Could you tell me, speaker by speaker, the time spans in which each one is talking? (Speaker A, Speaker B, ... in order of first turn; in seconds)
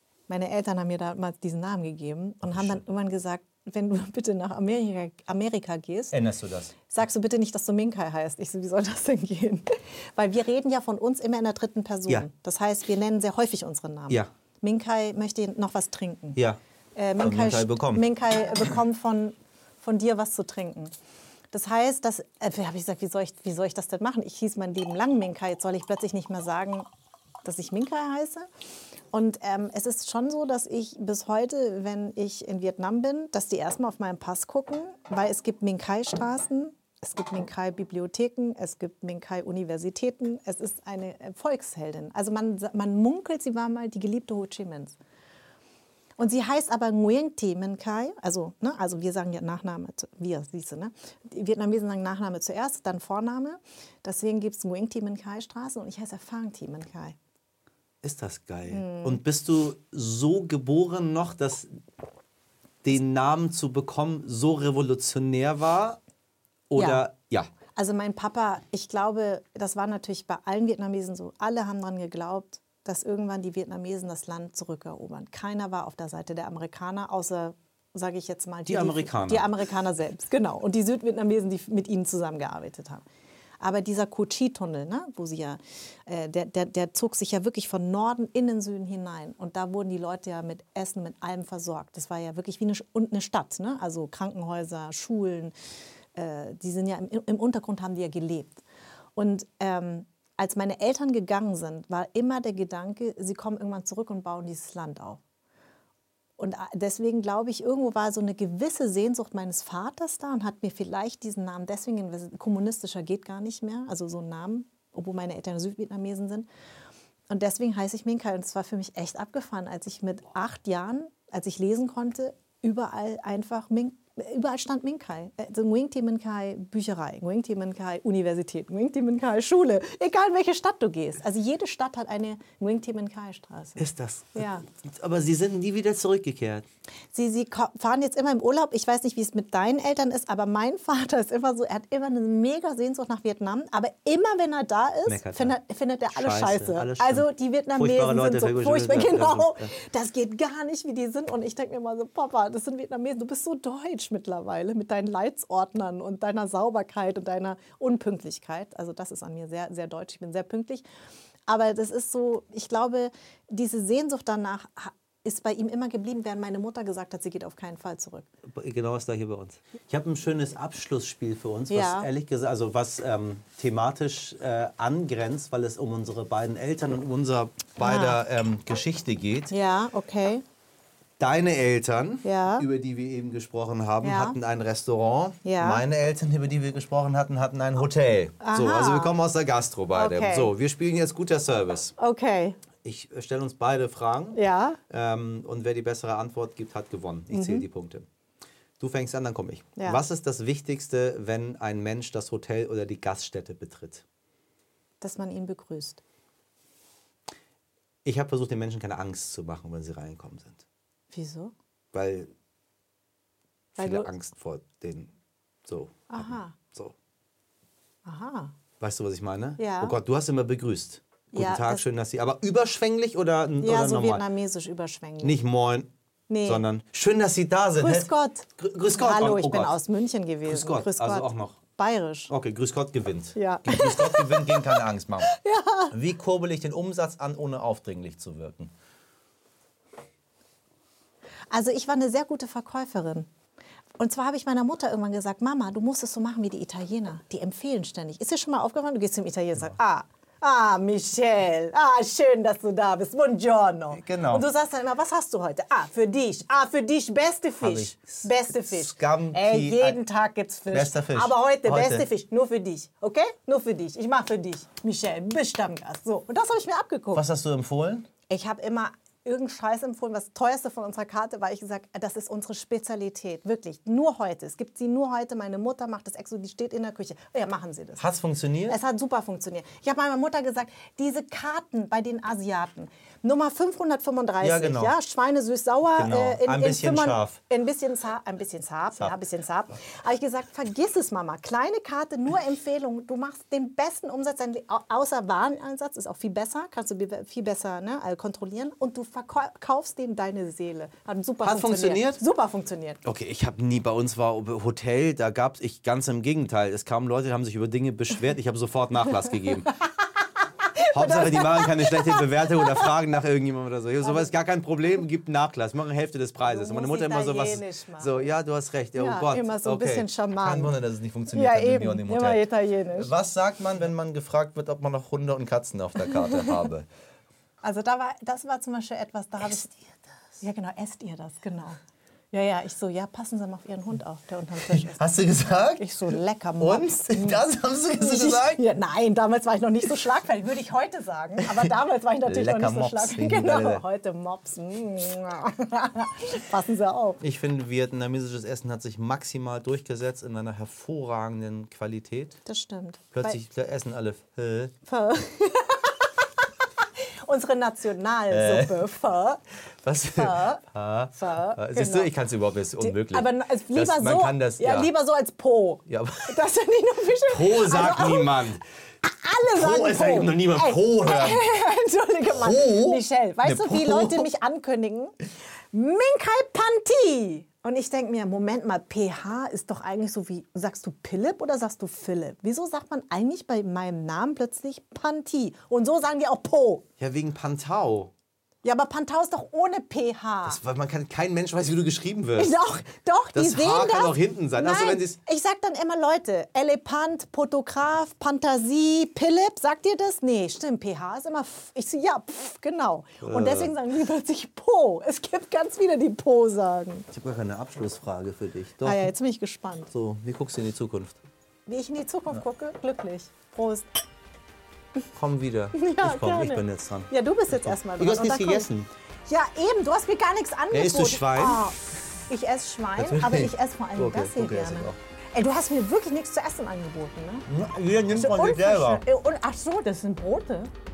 Speaker A: 0.3-6.2, 6.9-16.4, 16.9-20.9, 21.5-26.9, 27.4-28.4, 29.1-45.0, 46.2-57.1, 58.7-59.2, 66.8-67.1, 67.7-83.0, 83.6-95.5, 96.1-98.6, 99.2-105.2, 106.4-116.5, 117.3-133.8, 134.3-134.6, 137.1-160.8, 161.5-168.3, 171.7-172.1, 177.8-178.2, 179.5-180.4, 182.2-182.7, 184.0-184.4, 185.4-185.8, 188.4-189.2, 189.9-190.5, 192.0-192.6, 194.3-194.8, 197.3-197.7, 199.8-200.0, 205.0-206.0, 211.1-211.5, 213.8-214.1, 216.1-216.6, 218.0-218.5, 219.6-220.0, 221.3-221.8, 223.6-225.4, 226.3-226.6, 227.8-232.3, 233.3-235.9, 241.5-243.3, 244.0-267.2, 268.3-278.0, 278.7-303.0, 310.7-312.9, 314.0-314.3, 316.4-318.2, 319.0-320.8, 321.3-323.1, 327.6-329.8, 330.4-331.8, 332.3-335.1, 335.8-347.2, 352.4-353.4, 354.9-356.1, 357.2-359.4, 360.1-362.1, 362.8-368.4, 369.0-375.1, 375.7-386.8, 388.6-390.6, 392.4-407.1, 408.8-409.9, 411.7-413.9, 415.7-418.7, 419.3-421.8, 422.3-427.5, 428.1-430.7
Speaker B: 2.5-2.8, 6.1-6.7, 17.2-18.1, 58.0-61.7, 62.8-66.0, 66.7-67.5, 78.7-79.5, 133.8-136.6, 145.1-145.6, 146.1-149.7, 168.5-179.5, 181.2-191.9, 192.8-198.1, 198.8-204.0, 208.0-210.6, 211.9-212.3, 213.8-215.1, 215.7-216.9, 218.8-224.2, 225.2-225.9, 226.4-229.7, 230.4-231.6, 232.3-235.3, 235.9-238.7, 253.9-254.5, 257.6-260.0, 260.7-262.1, 267.1-268.1, 278.0-278.8, 284.4-284.9, 285.9-287.4, 301.4-302.2, 303.0-309.7, 310.9-326.9, 334.7-335.9, 336.6-338.6, 341.4-341.7, 342.2-343.8, 347.2-352.4, 353.1-354.7, 358.3-358.8, 359.8-364.9, 365.9-366.4, 367.3-368.6, 369.5-371.4, 372.3-374.3, 387.0-388.1, 390.4-392.6, 393.3-395.2, 403.2-403.7, 407.1-409.1, 409.9-411.2, 415.1-418.9, 420.7-421.6, 423.0-425.0, 427.5-429.0